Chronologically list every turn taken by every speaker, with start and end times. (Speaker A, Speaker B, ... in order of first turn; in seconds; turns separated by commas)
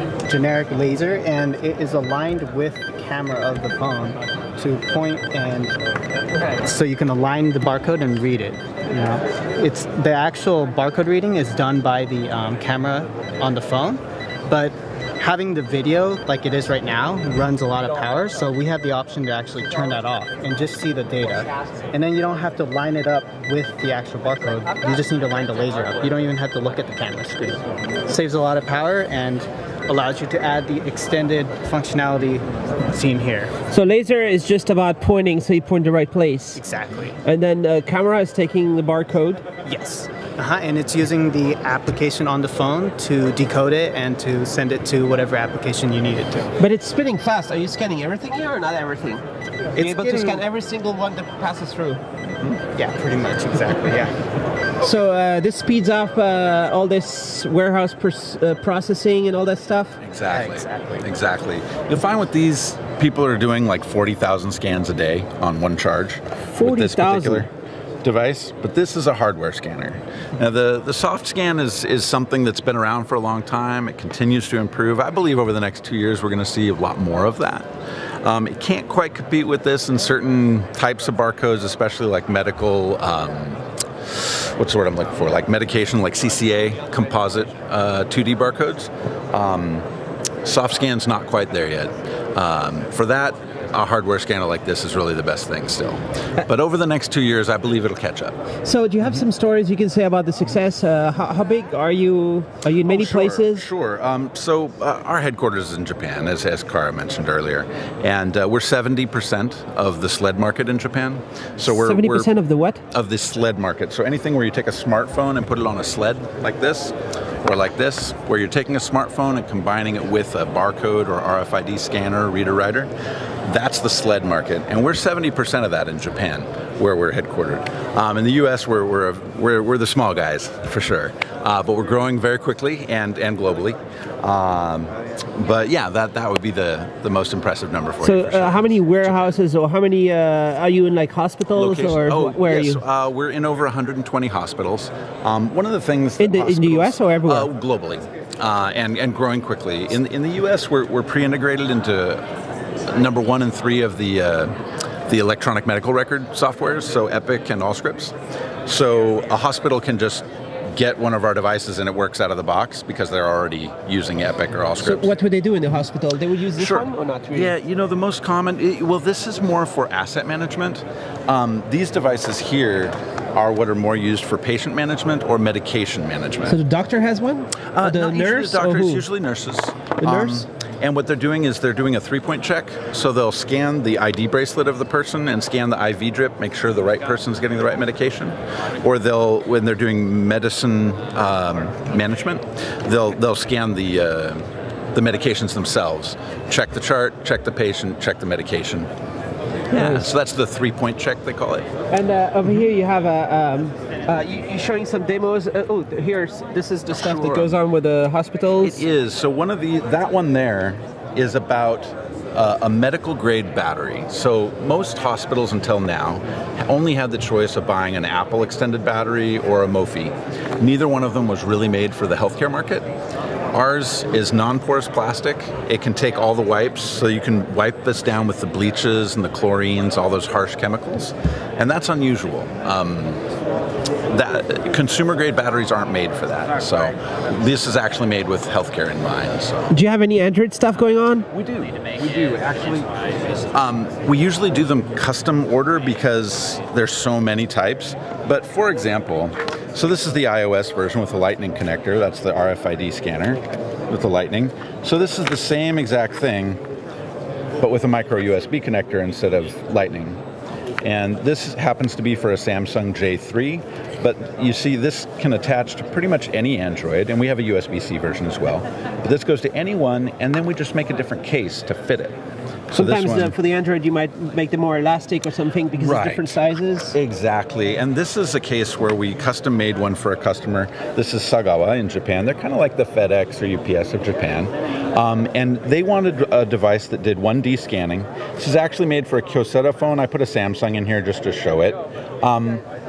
Speaker A: 0.2-5.7, Speaker A: 6.6-33.5, Speaker B: 33.7-36.6, Speaker A: 36.5-37.1, Speaker B: 37.2-39.4, Speaker A: 39.6-46.5, Speaker B: 46.6-49.2, Speaker A: 49.7-50.4, Speaker B: 49.8-52.0, Speaker C: 52.3-52.6, Speaker A: 52.8-54.1, Speaker B: 54.8-60.0, Speaker C: 60.0-67.5, Speaker A: 60.3-61.0, Speaker B: 66.5-67.5, Speaker C: 68.0-77.7, Speaker C: 78.2-89.9, Speaker C: 90.4-98.4, Speaker B: 98.6-103.7, Speaker C: 102.8-112.3, Speaker B: 111.7-112.8, Speaker C: 112.9-122.9, Speaker C: 123.5-139.3, Speaker B: 138.0-142.8, Speaker C: 141.5-152.2, Speaker B: 146.2-147.5, Speaker C: 152.8-154.6, Speaker C: 155.1-158.1, Speaker C: 158.7-165.2, Speaker B: 164.8-167.6, Speaker C: 166.6-176.6, Speaker B: 176.4-179.1, Speaker C: 177.8-198.9, Speaker B: 180.0-180.5, Speaker C: 199.7-201.7, Speaker B: 199.7-200.1, Speaker B: 201.9-208.8, Speaker C: 206.9-207.6, Speaker C: 208.6-222.9, Speaker C: 223.5-233.2, Speaker C: 234.1-239.7, Speaker B: 239.7-241.3, Speaker C: 241.3-242.9, Speaker C: 243.5-256.6, Speaker C: 257.6-260.2, Speaker C: 260.8-272.1, Speaker C: 272.7-273.3, Speaker B: 272.7-276.9, Speaker C: 275.8-276.4, Speaker C: 276.9-292.6